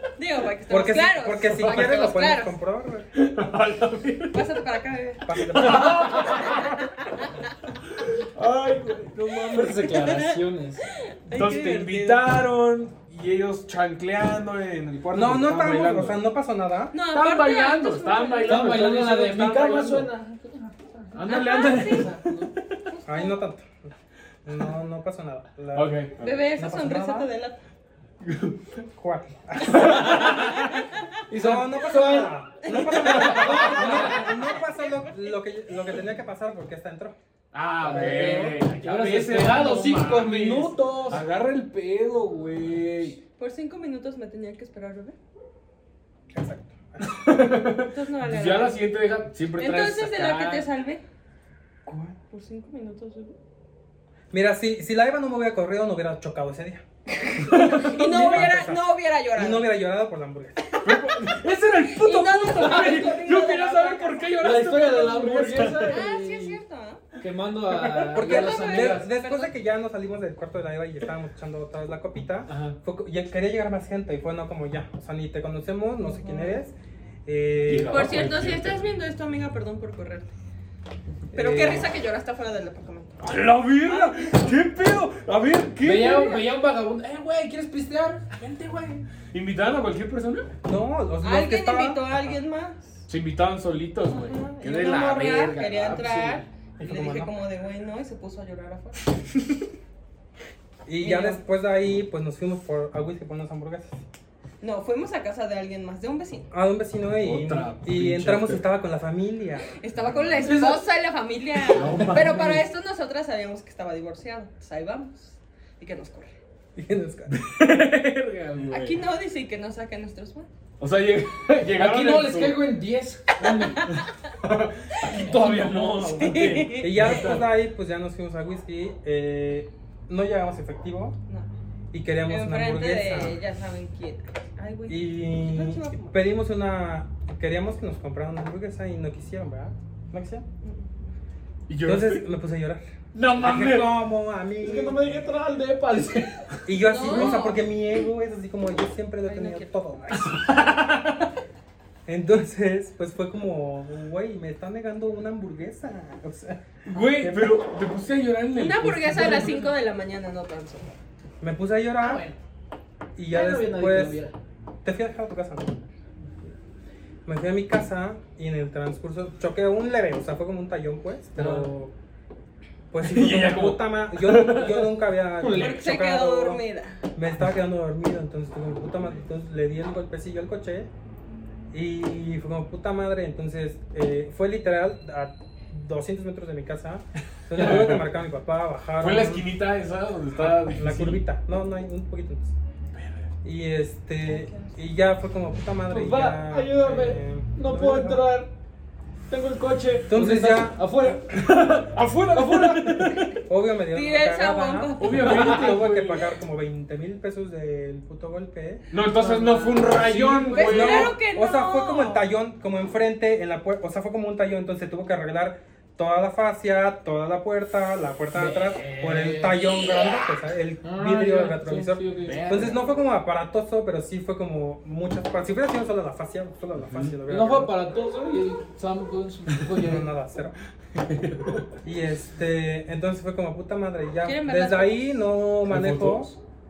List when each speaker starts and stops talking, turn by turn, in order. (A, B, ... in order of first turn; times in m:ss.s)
0:00.2-0:02.6 A
0:00.7-0:03.1 B
0:01.5-0:02.1 C
0:03.2-0:04.6 C
0:04.3-0:05.4 A
0:05.3-0:06.4 B
0:05.4-0:06.9 C
0:06.2-0:06.8 A
0:07.8-0:10.1 C
0:09.5-0:10.9 D
0:09.9-0:12.3 A
0:11.3-0:16.2 C
0:15.1-0:17.0 B
0:16.9-0:18.8 A
0:17.1-0:20.1 C
0:18.4-0:22.5 D
0:21.1-0:22.5 C
0:21.2-0:22.3 A
0:22.9-0:23.4 A
0:23.1-0:23.9 B
0:24.4-0:26.0 B
0:25.7-0:26.4 C
0:26.2-0:27.6 A
0:26.6-0:27.3 B
0:28.2-0:28.8 C
0:29.0-0:30.3 B
0:29.6-0:30.9 C
0:29.8-0:30.6 D
0:30.2-0:30.8 A
0:31.3-0:32.4 D
0:31.3-0:37.2 B
0:32.6-0:34.7 A
0:33.1-0:34.3 D
0:33.5-0:34.0 C
0:37.5-0:43.2 C
0:37.8-0:41.2 D
0:38.0-0:38.4 B
0:43.4-0:45.2 A
0:46.3-0:47.4 B
0:47.0-0:50.7 C
0:47.8-0:48.8 A
0:49.6-0:51.0 A
0:51.8-0:52.2 B
0:52.3-0:53.4 A
0:54.3-0:56.8 B
0:57.2-0:59.7 A
0:57.4-0:58.5 C
0:57.8-1:00.7 B
1:00.7-1:01.1 A
1:00.8-1:06.0 C
1:01.8-1:04.3 A
1:04.4-1:06.6 D
1:05.8-1:07.1 A
1:07.2-1:09.1 D
1:07.7-1:08.2 C
1:08.1-1:16.7 B
1:08.2-1:09.5 A
1:12.5-1:12.8 C
1:16.0-1:16.7 A
1:17.3-1:18.1 B
1:17.6-1:18.9 C
1:17.9-1:20.3 A
1:21.3-1:21.9 B
1:21.3-1:23.2 A
1:23.2-1:26.4 C
1:23.8-1:24.6 A
1:25.8-1:29.1 D
1:29.3-1:30.5 C
1:30.6-1:32.2 B
1:31.2-1:32.8 A
1:33.1-1:36.4 C
1:34.0-1:39.2 A
1:36.8-1:37.4 B
1:40.9-1:44.0 B
1:41.0-1:41.4 A
1:44.6-1:46.5 A
1:46.5-1:49.8 B
1:47.2-1:48.6 C
1:49.8-1:56.3 A
1:50.0-1:50.5 C
1:51.7-1:52.6 C
1:56.8-1:57.3 B
1:57.3-1:59.0 C
1:58.7-2:00.5 A
2:00.8-2:02.7 C
2:01.7-2:04.0 D
2:03.5-2:04.1 A
2:03.9-2:07.5 C
2:05.1-2:06.6 D
2:06.2-2:07.0 A
2:06.8-2:11.2 B
2:11.9-2:13.4 B
2:12.3-2:16.2 A
2:14.9-2:20.4 B
2:20.6-2:21.2 A
2:21.7-2:22.2 C
2:21.8-2:25.0 B
2:23.1-2:24.0 C
2:24.6-2:26.6 D
2:26.7-2:30.4 B
2:26.7-2:27.6 A
2:29.2-2:29.7 A
2:30.1-2:31.3 C
2:32.1-2:37.6 B
2:36.9-2:39.7 C
2:38.5-2:40.9 A
2:41.4-2:42.2 B
2:42.0-2:42.4 D
2:43.2-2:44.2 B
2:43.3-2:44.4 D
2:44.8-2:45.8 B
2:47.3-2:51.9 B
2:52.9-2:56.6 B
2:53.0-2:55.0 C
2:55.4-2:55.8 D
2:55.5-2:57.0 A
2:57.2-3:00.9 B
3:01.7-3:09.5 B
3:07.5-3:08.0 C
3:09.0-3:11.2 C
3:10.3-3:12.6 B
3:12.9-3:13.3 C
3:13.4-3:18.3 B
3:14.3-3:14.8 A
3:15.9-3:18.5 D
3:19.3-3:20.2 C
3:20.1-3:21.3 D
3:20.1-3:21.0 B
3:21.3-3:23.4 C
3:22.3-3:23.2 D
3:23.4-3:28.8 B
3:23.9-3:25.7 A
3:25.0-3:26.3 C
3:28.9-3:31.2 C
3:29.1-3:30.8 D
3:30.5-3:32.2 A
3:30.6-3:47.8 B
3:38.4-3:39.7 D
3:40.8-3:42.8 D
3:42.2-3:43.0 C
3:46.8-3:47.2 C
3:47.3-3:50.1 D
3:49.8-3:50.6 B
3:51.0-3:51.7 C
3:51.8-3:56.4 B
3:54.2-3:55.2 A
3:55.6-3:56.4 C